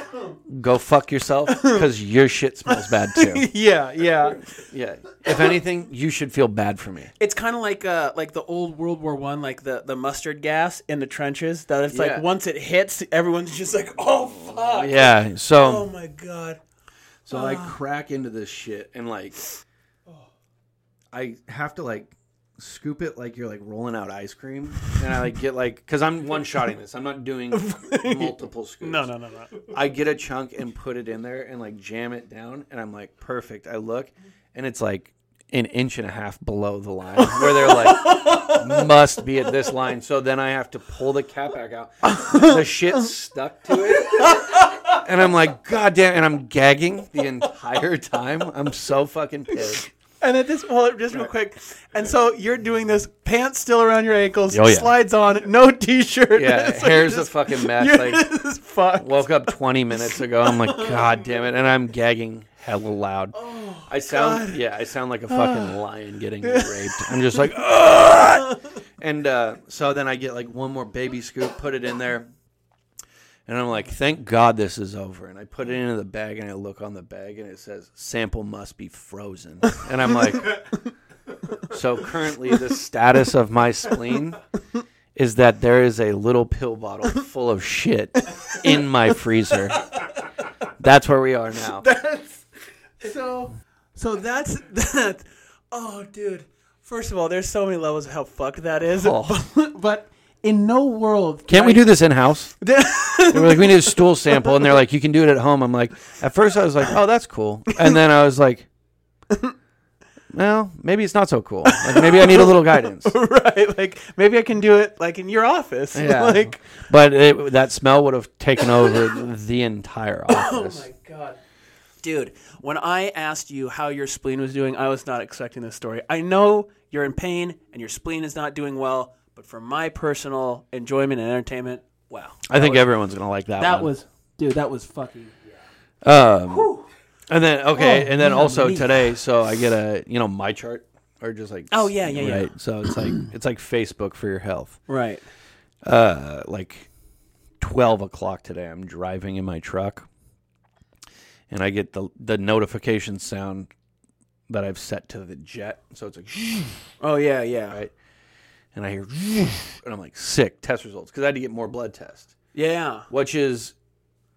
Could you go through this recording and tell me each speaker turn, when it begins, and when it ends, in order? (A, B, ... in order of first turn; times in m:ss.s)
0:00.5-0:03.5 A
0:01.5-0:01.8 B
0:02.7-0:04.4 B
0:04.5-0:07.1 A
0:07.2-0:16.6 B
0:11.9-0:12.2 A
0:14.5-0:15.9 A
0:17.2-0:19.4 A
0:17.3-0:17.7 B
0:21.1-0:29.1 A
0:27.5-0:29.7 B
0:29.7-0:49.8 A
0:37.2-0:38.8 B
0:42.0-0:42.6 B
0:44.0-0:45.0 B
0:50.2-0:59.6 B
0:54.5-0:54.9 A
0:56.3-0:58.3 A
0:59.0-1:12.3 A
1:00.1-1:01.0 B
1:03.3-1:04.6 B
1:05.3-1:05.8 B
1:06.4-1:07.4 B
1:08.4-1:08.6 B
1:13.5-1:20.6 A
1:21.7-1:24.4 A
1:25.1-1:29.9 A
1:28.2-1:28.8 B
1:29.5-1:30.3 B
1:30.8-1:31.8 A
1:31.8-1:32.4 B
1:33.0-1:41.9 B
1:38.9-1:39.4 A
1:41.5-1:42.6 A
1:42.6-1:44.6 B
1:43.2-1:48.7 A
1:50.3-1:53.1 A
1:51.6-1:56.6 B
1:55.9-2:00.9 A
2:00.3-2:01.4 B
2:02.0-2:12.9 B
2:12.5-2:13.9 A
2:13.6-2:15.3 B
2:16.0-2:16.7 A
2:16.5-2:16.9 B
2:17.3-2:24.8 A
2:17.7-2:19.1 B
2:21.7-2:23.2 B
2:24.9-2:25.2 B
2:25.8-2:26.9 A
2:27.6-2:30.1 A
2:31.5-2:33.7 A
2:34.5-2:36.9 A
2:37.0-2:37.8 B
2:38.7-2:42.3 A
2:42.5-2:43.1 B
2:43.1-2:43.7 A